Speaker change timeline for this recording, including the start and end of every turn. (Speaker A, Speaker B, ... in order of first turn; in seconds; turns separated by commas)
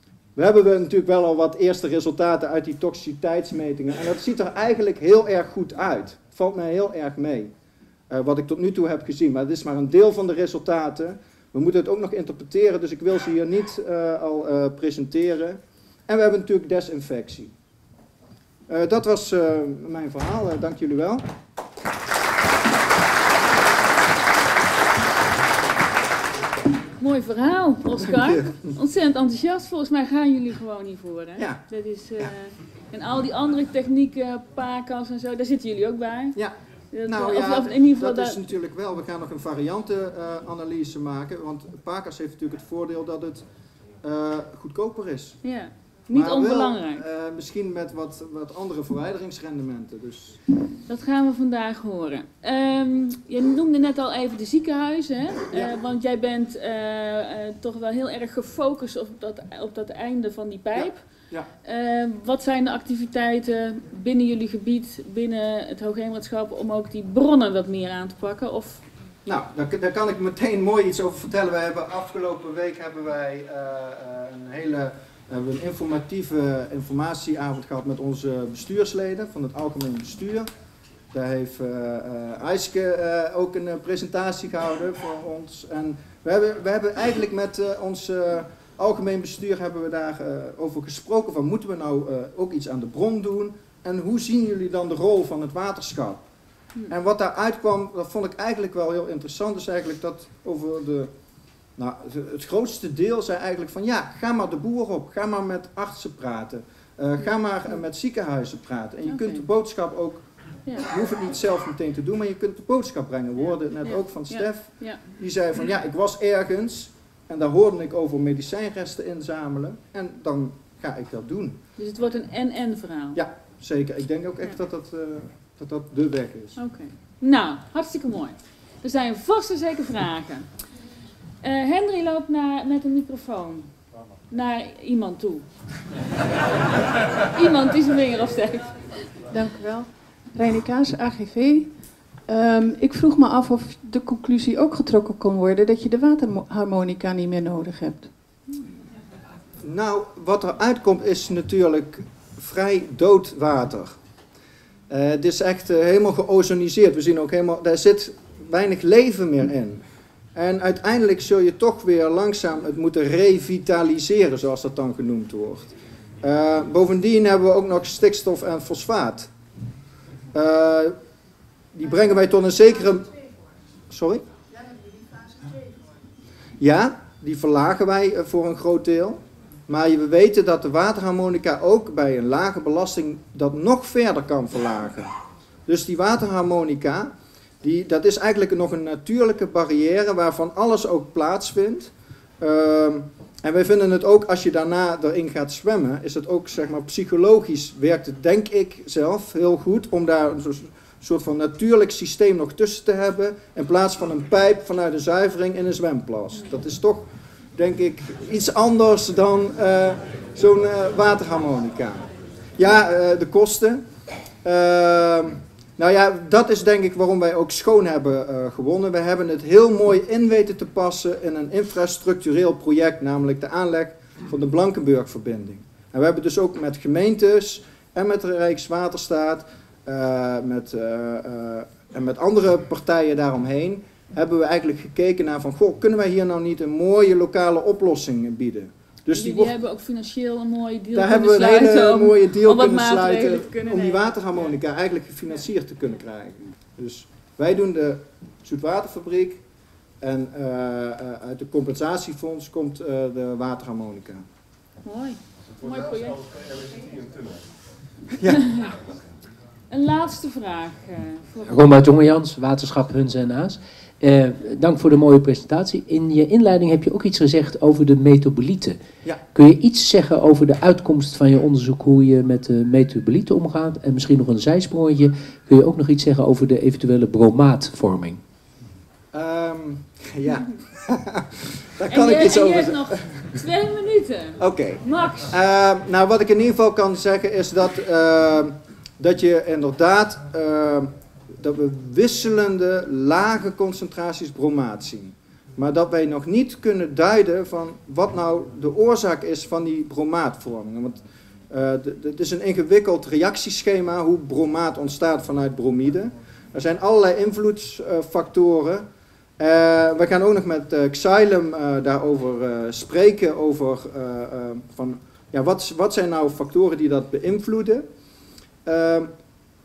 Speaker A: 0.4-7.5, Speaker A: 8.1-17.5, Speaker A: 18.7-21.2, Speaker B: 27.0-36.4, Speaker A: 28.1-28.5, Speaker A: 31.4-31.6, Speaker B: 36.9-38.4, Speaker A: 37.1-43.4, Speaker A: 44.0-45.4, Speaker B: 45.4-47.0, Speaker A: 46.1-50.4, Speaker B: 50.9-61.0, Speaker A: 60.8-61.5, Speaker B: 61.6-68.8, Speaker A: 69.2-80.5, Speaker A: 81.1-96.2, Speaker A: 96.9-101.1, Speaker A: 101.8-110.3, Speaker B: 109.1-109.4, Speaker A: 110.8-121.6, Speaker B: 113.8-115.0, Speaker B: 121.8-123.2, Speaker A: 123.2-126.6, Speaker B: 126.6-130.6, Speaker B: 131.4-133.7, Speaker B: 134.3-135.4, Speaker B: 137.2-139.0, Speaker C: 139.3-148.1, Speaker A: 149.6-154.0, Speaker A: 154.9-159.8, Speaker A: 160.3-169.3, Speaker A: 170.3-170.9, Speaker A: 171.7-173.2, Speaker A: 173.9-174.2, Speaker A: 176.6-185.1, Speaker A: 185.7-213.8, Speaker A: 214.4-239.5, Speaker B: 239.1-244.1, Speaker A: 240.9-249.4, Speaker A: 250.0-254.2, Speaker B: 254.8-256.2, Speaker A: 258.1-258.4, Speaker B: 258.4-258.8, Speaker B: 259.7-261.6, Speaker D: 261.5-268.8, Speaker D: 269.3-278.2, Speaker A: 279.1-283.4, Speaker B: 281.9-285.3, Speaker A: 284.4-308.9, Speaker A: 309.4-317.9, Speaker A: 318.6-319.1